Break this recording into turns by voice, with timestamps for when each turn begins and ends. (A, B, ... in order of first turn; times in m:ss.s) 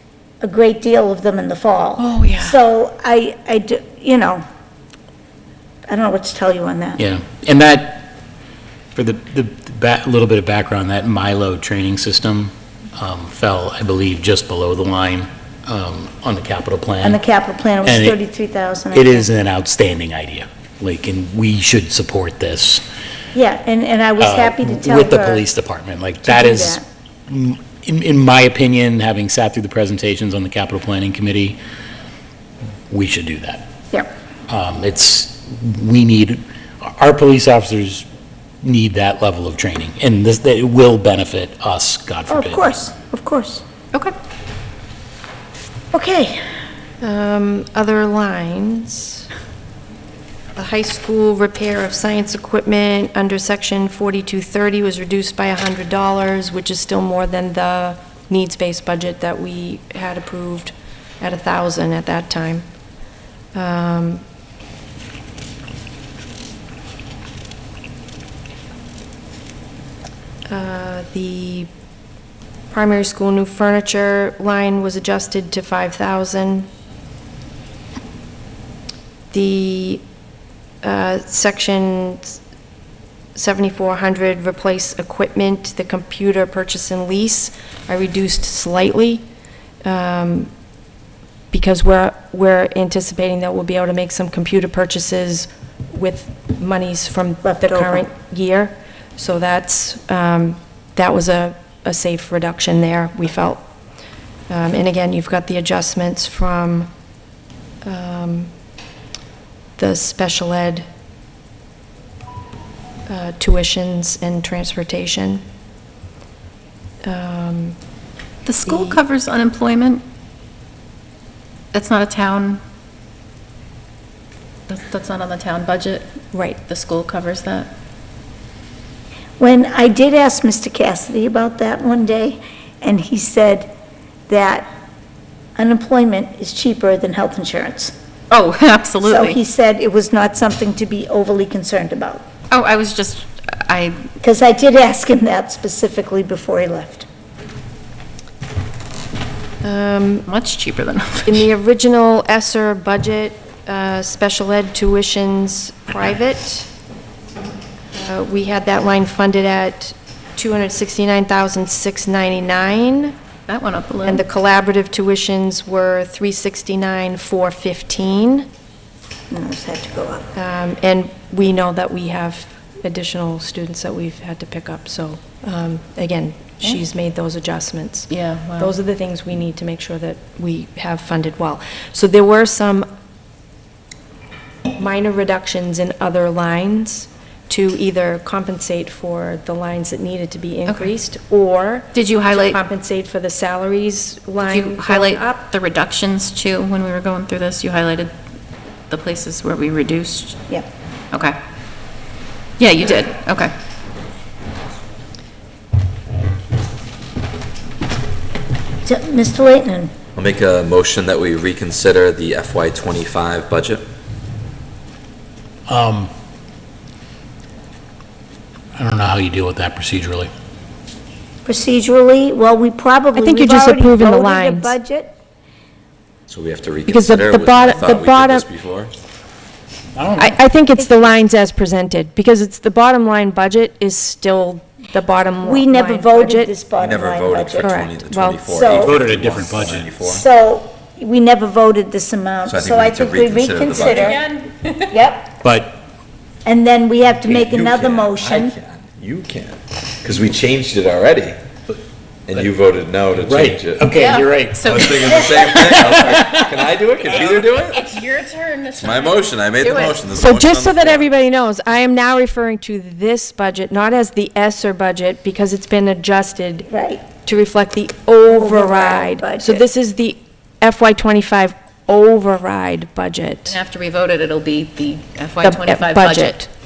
0:00.4-0:04.4 A
0:02.0-0:02.6 B
0:05.9-0:07.0 A
0:07.0-0:08.1 C
0:08.9-0:17.2 C
0:17.0-0:19.3 A
0:17.8-0:18.2 C
0:18.9-0:22.8 C
0:23.3-0:25.4 A
0:24.2-0:31.6 C
0:26.2-0:26.8 A
0:32.9-0:33.6 C
0:34.5-0:38.1 C
0:38.6-0:42.7 C
0:42.3-0:43.6 A
0:45.9-0:46.4 A
0:47.0-0:49.3 D
0:50.6-1:02.6 D
1:03.5-1:04.2 D
1:10.5-1:11.7 D
1:12.7-1:16.7 D
1:19.3-1:20.0 D
1:20.8-1:22.4 D
1:23.4-1:29.2 D
1:29.8-1:30.5 D
1:31.5-1:43.6 D
1:37.4-1:38.1 A
1:44.5-1:46.9 D
1:47.8-1:48.5 D
1:49.8-1:50.9 D
1:53.1-1:55.4 D
1:57.0-1:57.8 D
1:58.4-2:00.0 B
1:58.7-1:59.0 D
2:01.7-2:02.6 B
2:04.7-2:06.1 B
2:06.3-2:06.6 D
2:06.7-2:07.7 B
2:09.4-2:13.7 A
2:14.3-2:14.7 A
2:15.6-2:17.9 A
2:18.3-2:19.4 B
2:19.0-2:22.2 A
2:22.5-2:24.0 B
2:24.2-2:27.1 A
2:29.6-2:30.3 D
2:30.3-2:31.4 B
2:31.3-2:36.7 D
2:38.0-2:43.2 D
2:43.5-2:44.2 B
2:44.0-2:48.5 D
2:49.3-2:50.3 A
2:50.4-3:02.9 D
2:58.1-2:58.7 B
3:04.7-3:15.4 D
3:11.9-3:12.6 B
3:14.4-3:18.1 B
3:18.9-3:20.4 B
3:21.1-3:21.4 B
3:22.6-3:23.5 B
3:28.8-3:29.9 A
3:30.2-3:33.9 E
3:35.7-3:36.1 C
3:38.8-3:40.3 C
3:41.4-3:45.1 A
3:43.2-3:44.8 D
3:46.3-3:48.9 E
3:46.9-3:48.5 D
3:50.0-3:50.4 C
3:50.2-3:56.5 D
3:50.8-3:51.1 A
3:55.4-3:57.8 A
3:56.8-4:00.2 E
3:57.6-3:58.6 D
3:58.5-3:59.0 A
3:58.8-3:59.9 C
4:00.0-4:04.2 A
4:02.5-4:04.2 E
4:03.8-4:04.9 B
4:04.9-4:05.4 A
4:05.4-4:05.8 C
4:06.4-4:08.5 A
4:07.2-4:11.4 E
4:12.3-4:13.9 E
4:13.2-4:16.5 C
4:13.9-4:16.3 B
4:14.7-4:17.8 E
4:17.1-4:20.0 B
4:18.8-4:21.1 E
4:20.1-4:33.6 D
4:26.7-4:27.0 A
4:28.3-4:29.6 A
4:33.5-4:36.4 B
4:35.4-4:36.5 D